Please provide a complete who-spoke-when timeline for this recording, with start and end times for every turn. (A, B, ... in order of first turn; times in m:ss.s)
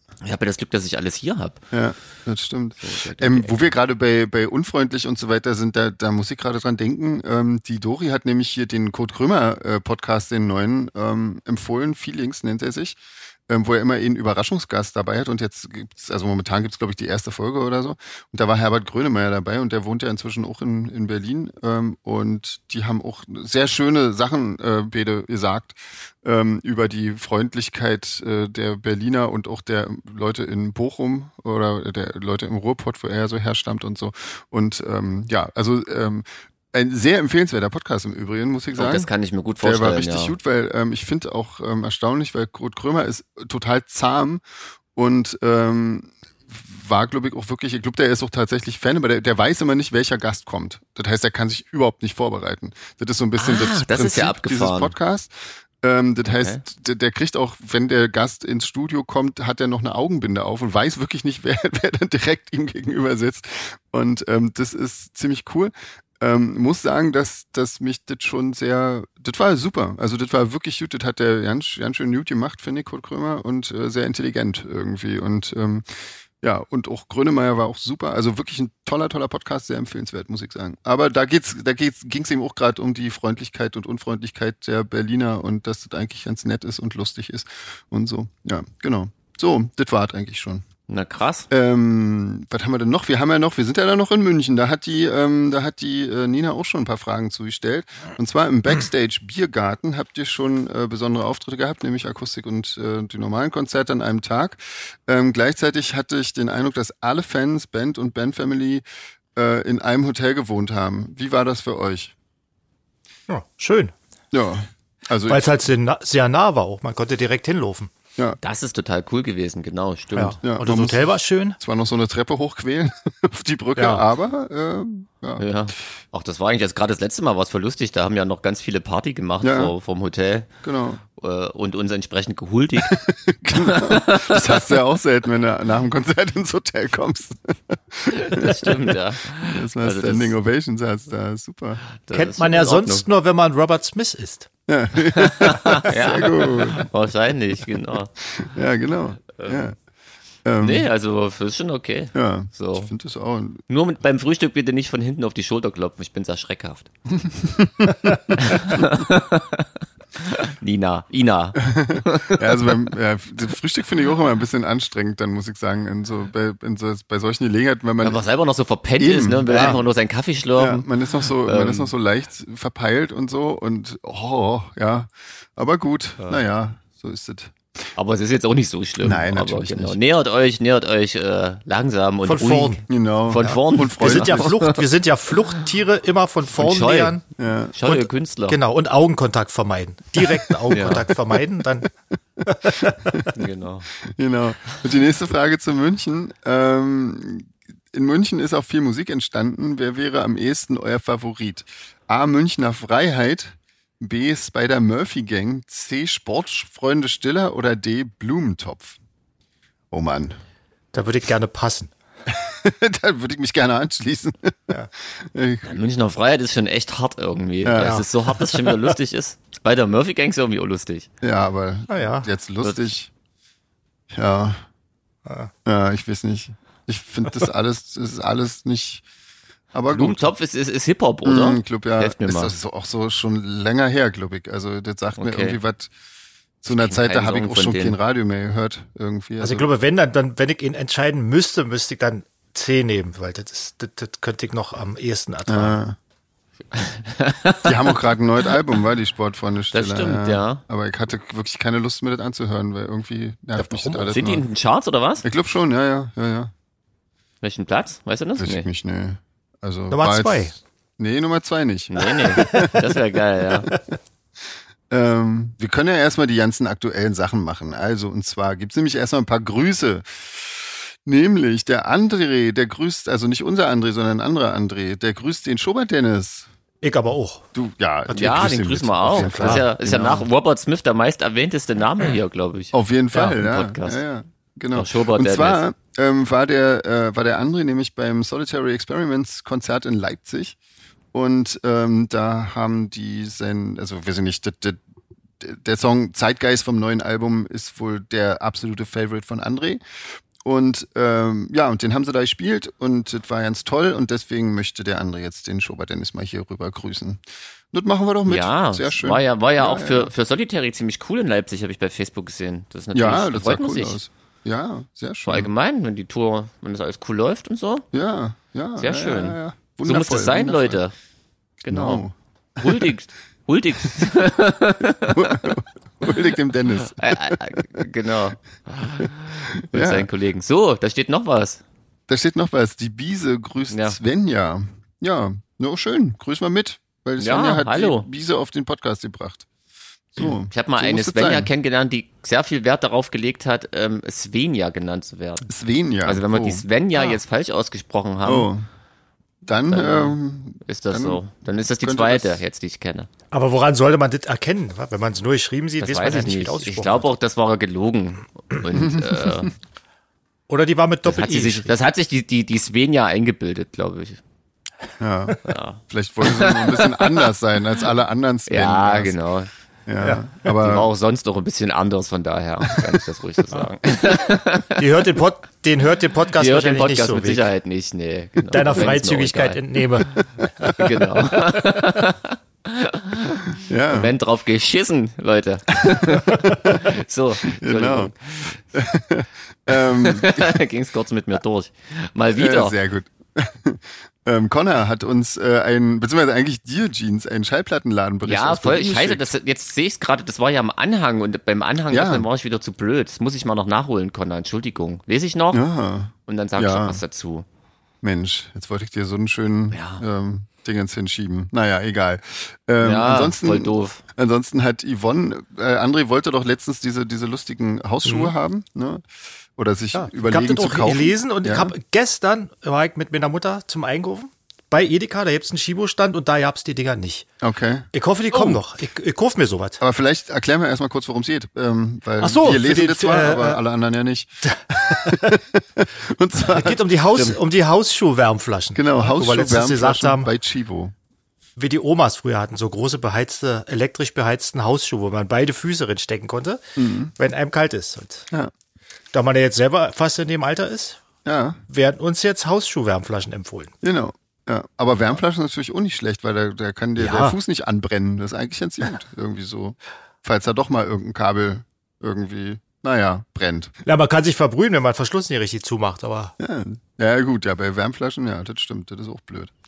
0:00.2-0:01.6 A
0:01.7-0:39.1 B
0:02.8-0:03.7 A
0:38.8-0:40.4 A
0:39.6-0:44.4 B
0:44.9-1:15.8 B
0:53.4-0:54.9 A
0:56.3-0:56.6 A
1:16.4-1:30.6 B
1:30.9-1:31.5 A
1:31.5-1:48.8 B
1:49.4-1:52.1 B
1:53.3-1:53.9 C
1:54.3-1:55.5 B
1:55.3-1:57.9 C
1:58.4-2:00.4 A
2:00.1-2:01.6 C
2:00.4-2:05.4 B
2:03.8-2:04.1 C
2:05.4-2:10.5 A
2:09.4-2:09.7 B
2:10.6-2:11.0 B
2:11.2-2:13.0 A
2:12.8-2:21.8 B
2:13.5-2:14.6 A
2:18.1-2:20.3 A
2:22.0-2:23.0 A
2:22.1-2:24.5 C
2:24.7-2:26.9 B
2:25.0-2:28.1 A
2:28.3-2:29.8 B
2:30.4-2:30.9 B
2:30.6-2:32.9 A
2:32.1-2:33.6 B
2:33.7-2:36.9 A
2:37.1-2:38.9 B
2:38.4-2:42.8 A
2:41.6-2:48.2 B
2:48.0-2:51.9 A
2:49.0-2:49.8 B
2:49.5-2:49.8 C
2:50.6-2:57.5 B
2:58.0-3:04.8 A
2:59.0-3:00.0 B
3:02.2-3:02.8 C
3:02.9-3:04.5 B
3:03.4-3:07.2 C
3:06.5-3:07.2 A
3:07.4-3:07.7 B
3:07.7-3:08.6 A
3:07.8-3:11.9 C
3:10.2-3:10.5 B
3:10.7-3:11.1 A
3:12.4-3:13.3 B
3:12.4-3:13.3 C
3:13.3-3:13.9 A
3:14.0-3:29.0 B
3:29.9-3:30.4 B
3:30.9-3:31.9 C
3:32.3-3:35.7 B
3:35.6-3:41.1 A
3:37.6-3:38.0 B
3:37.8-3:38.7 C
3:41.2-3:43.1 B
3:41.9-3:42.3 C
3:44.1-3:44.6 B
3:45.2-3:45.5 C
3:45.6-3:49.0 B
3:49.7-3:50.3 B
3:49.9-3:52.5 A
3:51.2-3:55.9 B
3:55.2-3:55.6 A
3:56.6-3:59.7 B
3:56.7-3:58.0 A
3:59.4-4:05.8 C
4:05.5-4:06.0 B
4:06.7-4:08.0 A
4:07.6-4:14.4 B
4:09.7-4:10.6 A
4:13.6-4:14.2 C
4:13.9-4:15.2 A
4:15.2-4:16.5 B
4:17.4-4:18.6 A
4:18.4-4:23.0 B
4:19.9-4:20.5 C
4:21.9-4:23.7 A
4:22.3-4:22.7 C
4:24.9-4:36.5 B
4:36.8-4:37.4 C
4:37.5-4:40.3 B
4:38.1-4:44.0 A
4:39.1-4:39.7 C
4:42.7-4:50.6 B
4:44.7-4:45.6 A
4:51.1-4:54.8 B
4:55.4-4:59.8 B
5:00.4-5:10.1 B
5:08.3-5:14.0 A
5:12.9-5:15.5 B
5:15.2-5:17.8 A
5:17.9-5:20.8 B
5:18.8-5:20.9 A
5:21.6-5:22.9 B
5:21.6-5:22.0 A
5:22.6-5:26.2 A
5:25.1-5:27.8 B
5:26.8-5:31.6 A
5:29.0-5:30.1 B
5:32.1-5:39.5 B
5:33.7-5:34.0 A
5:37.2-5:38.1 A
5:40.1-5:41.5 B
5:40.2-5:45.5 A
5:45.5-5:46.6 B
5:46.0-5:48.5 A
5:48.2-5:48.7 B
5:49.4-5:51.2 B
5:49.7-5:53.1 A
5:51.8-5:52.4 B
5:53.3-5:57.1 C
5:55.8-5:59.5 A
5:58.7-5:59.5 B
6:00.5-6:01.7 C
6:01.0-6:04.2 A
6:05.0-6:09.2 B
6:05.4-6:07.3 A
6:08.5-6:09.5 A
6:09.9-6:10.9 B
6:10.4-6:14.8 A
6:14.8-6:17.4 C
6:16.3-6:19.6 A
6:18.5-6:20.7 C
6:20.6-6:20.9 B
6:20.7-6:28.6 A
6:23.6-6:24.1 B
6:25.8-6:26.9 B
6:27.4-6:28.1 B
6:28.7-6:30.6 B
6:29.7-6:32.7 A
6:32.3-6:39.3 B
6:38.2-6:45.6 A
6:41.9-6:42.3 B
6:45.5-6:47.0 B
6:46.3-6:47.4 A
6:48.0-6:59.0 B
6:49.7-6:50.0 A
6:52.8-6:54.0 A
6:58.0-6:58.3 C
6:59.6-7:01.7 B
6:59.9-7:07.3 C
7:07.4-7:08.6 B
7:07.9-7:09.8 C
7:09.8-7:17.4 B
7:12.2-7:13.6 C
7:14.9-7:15.4 C
7:16.4-7:20.3 C
7:18.7-7:20.9 B
7:21.6-7:26.6 C
7:26.8-7:27.1 B
7:27.1-7:28.3 C
7:29.1-7:31.0 C
7:31.2-7:31.6 B
7:31.7-7:33.7 C
7:33.8-7:43.7 B
7:37.0-7:37.4 C
7:43.8-7:46.3 C
7:46.4-7:49.6 B